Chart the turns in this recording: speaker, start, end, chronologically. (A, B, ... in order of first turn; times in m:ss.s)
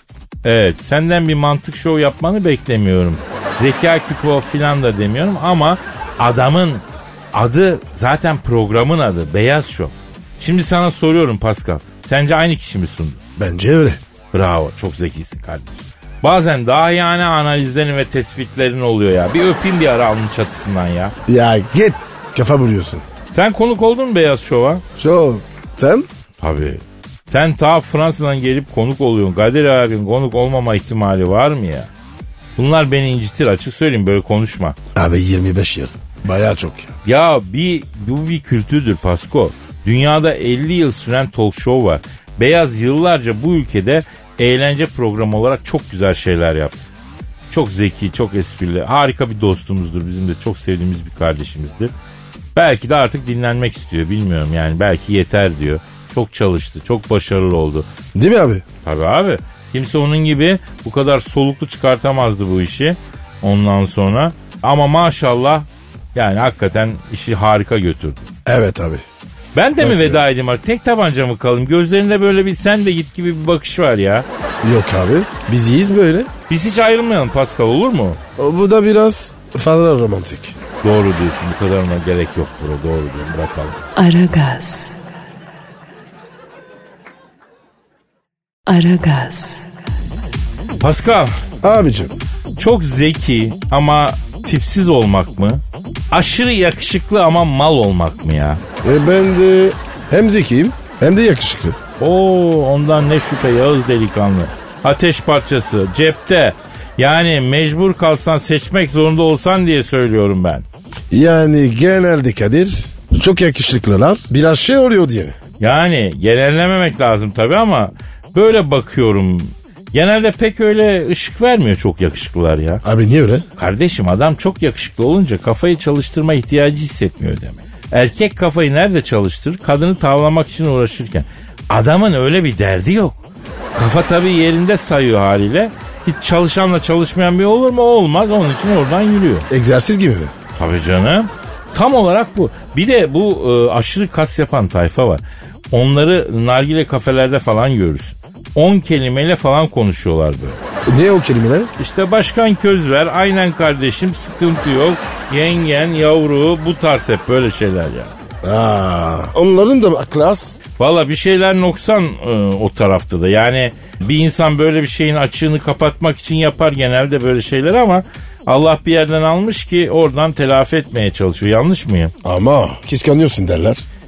0:00.4-0:13.2 A
0:13.4-0:14.0 B
0:14.3-0:21.1 A
0:21.3-0:23.0 B
0:23.3-0:24.8 A
0:25.0-0:26.1 B
0:26.4-0:31.9 A
0:32.6-0:34.8 A
0:34.9-0:36.9 B
0:37.0-0:46.8 A
0:47.5-0:51.9 A
0:52.5-0:57.9 A
0:58.1-0:58.6 B
0:58.8-1:08.3 A
1:08.4-1:09.0 B
1:09.5-1:14.2 A
1:09.8-1:10.2 B
1:14.6-1:16.3 B
1:16.5-1:18.2 A
1:18.4-1:20.5 B
1:20.8-1:23.8 A
1:24.0-1:25.0 C
1:28.7-1:29.7 C
1:30.8-1:31.4 A
1:31.6-1:32.1 B
1:32.6-1:38.6 A
1:38.8-1:41.8 B
1:42.0-1:50.6 A
1:51.1-1:55.4 B
1:55.6-2:02.8 A
2:02.8-2:03.4 B
2:03.6-2:13.2 A
2:13.7-2:19.5 A
2:19.5-2:20.3 B
2:20.6-2:30.6 A
2:30.8-2:31.7 B
2:31.8-2:38.1 A
2:38.4-2:40.6 B
2:40.8-2:52.1 A
2:52.2-2:53.8 B